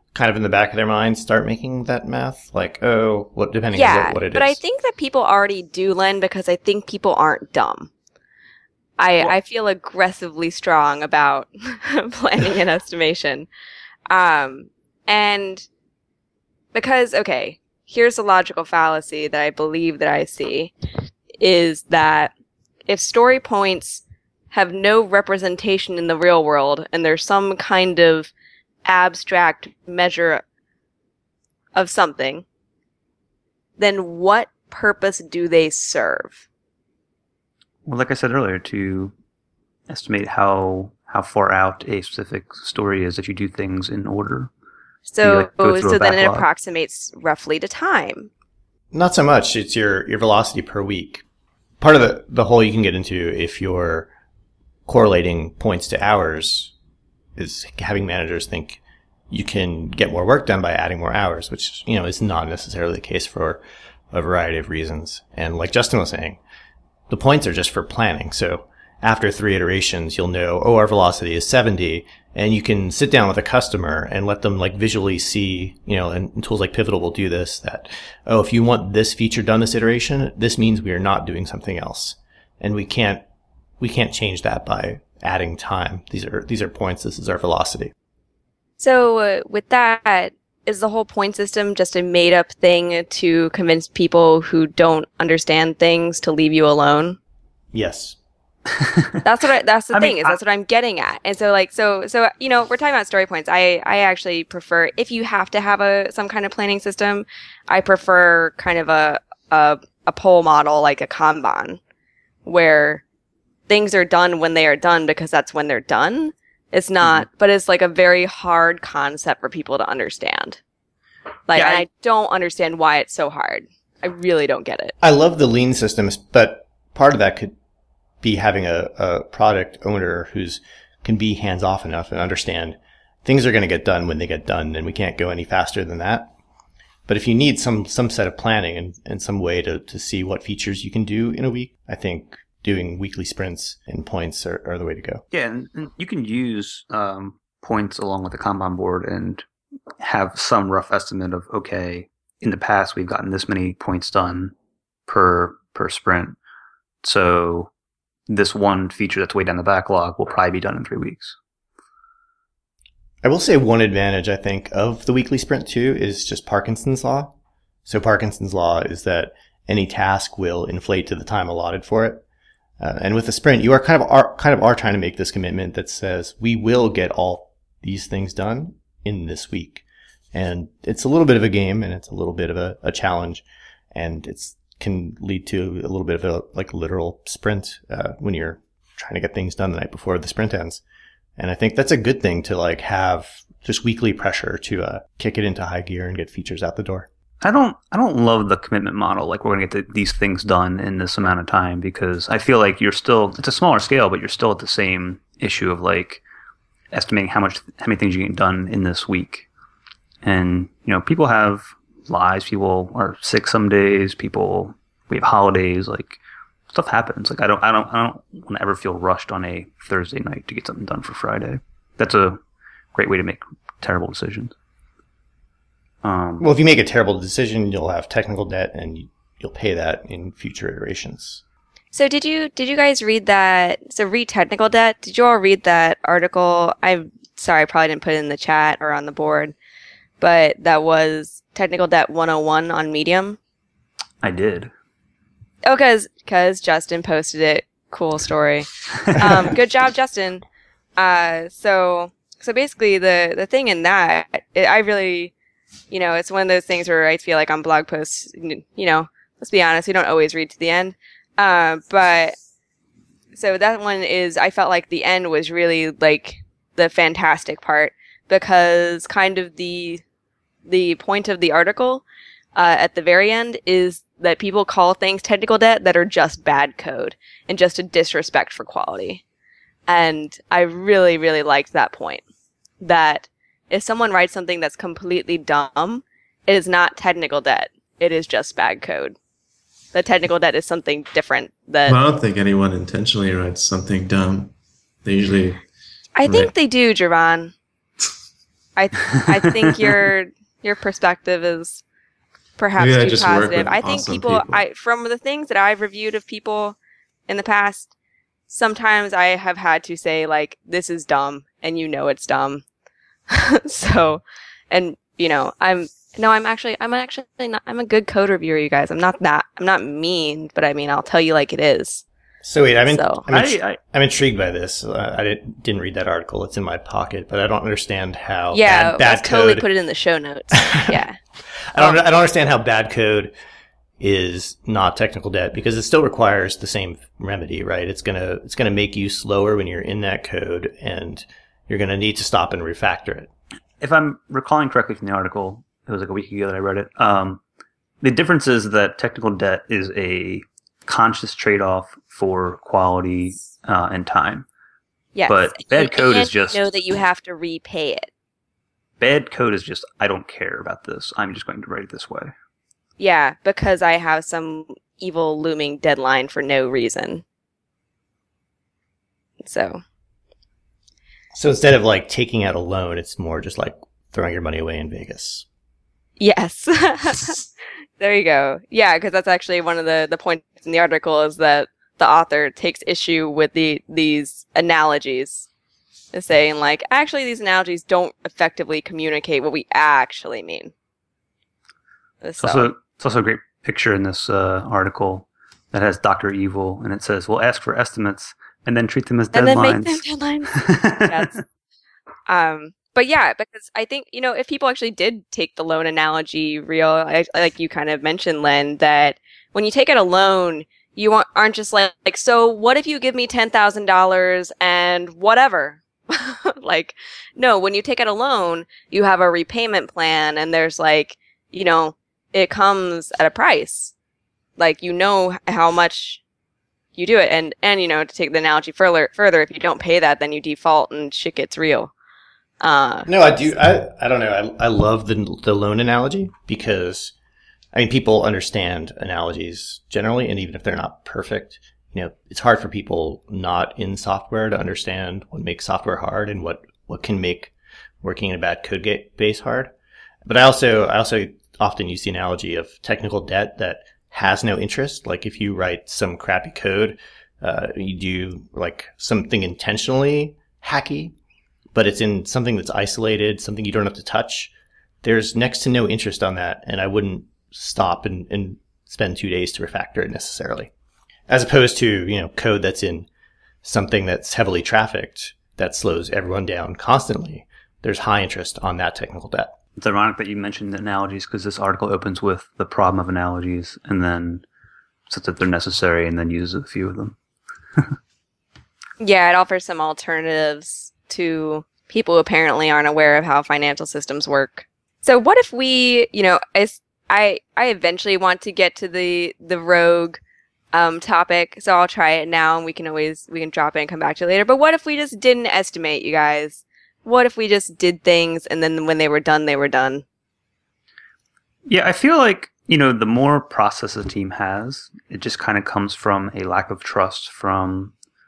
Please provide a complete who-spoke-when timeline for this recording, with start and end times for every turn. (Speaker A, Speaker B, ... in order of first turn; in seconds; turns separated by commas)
Speaker A: 0.1-4.6, Speaker B: 3.7-7.9, Speaker B: 9.0-13.5, Speaker B: 14.1-15.7, Speaker B: 16.7-20.7, Speaker B: 21.4-22.3, Speaker B: 22.9-28.3, Speaker B: 28.9-30.4, Speaker B: 31.8-32.5, Speaker B: 33.8-36.4, Speaker C: 37.9-39.1, Speaker C: 39.9-44.5, Speaker B: 45.1-48.3, Speaker C: 45.2-46.5, Speaker A: 48.9-51.2, Speaker A: 51.8-54.1, Speaker A: 54.9-56.7, Speaker A: 57.4-66.4, Speaker A: 67.1-83.2, Speaker A: 83.8-87.9, Speaker B: 88.8-97.2, Speaker A: 97.7-98.2, Speaker C: 98.7-99.2, Speaker B: 99.2-111.8, Speaker C: 99.9-100.4, Speaker B: 112.5-113.0, Speaker B: 113.7-120.6, Speaker B: 121.5-124.9, Speaker C: 121.5-121.8, Speaker A: 125.0-127.5, Speaker A: 128.2-136.3, Speaker A: 137.1-145.2, Speaker C: 145.3-149.5, Speaker C: 150.0-154.5, Speaker C: 155.1-156.4, Speaker C: 157.0-157.7, Speaker C: 158.3-161.4, Speaker A: 163.2-167.3, Speaker A: 167.9-172.2, Speaker A: 172.8-190.8, Speaker A: 191.4-197.1, Speaker C: 197.4-206.2, Speaker C: 206.9-209.5, Speaker C: 210.2-216.2, Speaker C: 216.7-222.4, Speaker C: 222.9-224.6, Speaker C: 226.0-226.5, Speaker A: 226.4-231.4, Speaker B: 231.9-239.6, Speaker B: 240.2-243.4, Speaker C: 244.2-244.7, Speaker B: 245.7-250.4, Speaker C: 249.0-249.4, Speaker B: 251.0-255.3, Speaker B: 255.9-262.4, Speaker B: 263.3-270.0, Speaker B: 270.7-272.0, Speaker B: 272.6-279.2, Speaker B: 279.9-282.2, Speaker B: 282.8-289.2, Speaker B: 289.9-292.0, Speaker D: 291.9-294.5, Speaker D: 295.0-295.6, Speaker B: 296.2-297.5, Speaker D: 296.2-296.5, Speaker B: 298.8-301.8, Speaker B: 302.6-306.8, Speaker D: 302.8-304.6, Speaker B: 307.3-307.9, Speaker B: 308.5-312.6, Speaker B: 313.3-322.0, Speaker A: 322.4-329.6, Speaker B: 322.9-323.3, Speaker C: 323.3-323.8, Speaker B: 328.5-331.2, Speaker A: 330.6-331.0, Speaker A: 331.7-333.3, Speaker A: 334.0-343.3, Speaker C: 343.8-347.4, Speaker C: 348.0-354.5, Speaker B: 355.1-358.1, Speaker C: 355.3-356.6, Speaker C: 359.0-362.3, Speaker B: 363.0-367.2, Speaker B: 369.4-369.8, Speaker A: 371.3-375.5, Speaker B: 376.2-377.5, Speaker B: 378.0-385.5, Speaker B: 386.1-390.7, Speaker B: 392.2-392.7, Speaker C: 392.4-400.0, Speaker B: 399.3-401.4, Speaker C: 400.5-401.4, Speaker B: 402.3-423.9, Speaker B: 424.6-426.2, Speaker B: 427.0-431.9, Speaker B: 432.6-433.4, Speaker A: 433.1-437.1, Speaker A: 437.7-449.7, Speaker A: 450.3-461.1, Speaker A: 461.7-464.5, Speaker A: 465.0-470.7, Speaker A: 471.3-473.1, Speaker A: 473.6-479.5, Speaker C: 479.8-484.4, Speaker C: 485.1-487.2, Speaker B: 489.0-500.2, Speaker B: 500.7-510.1, Speaker C: 511.7-517.9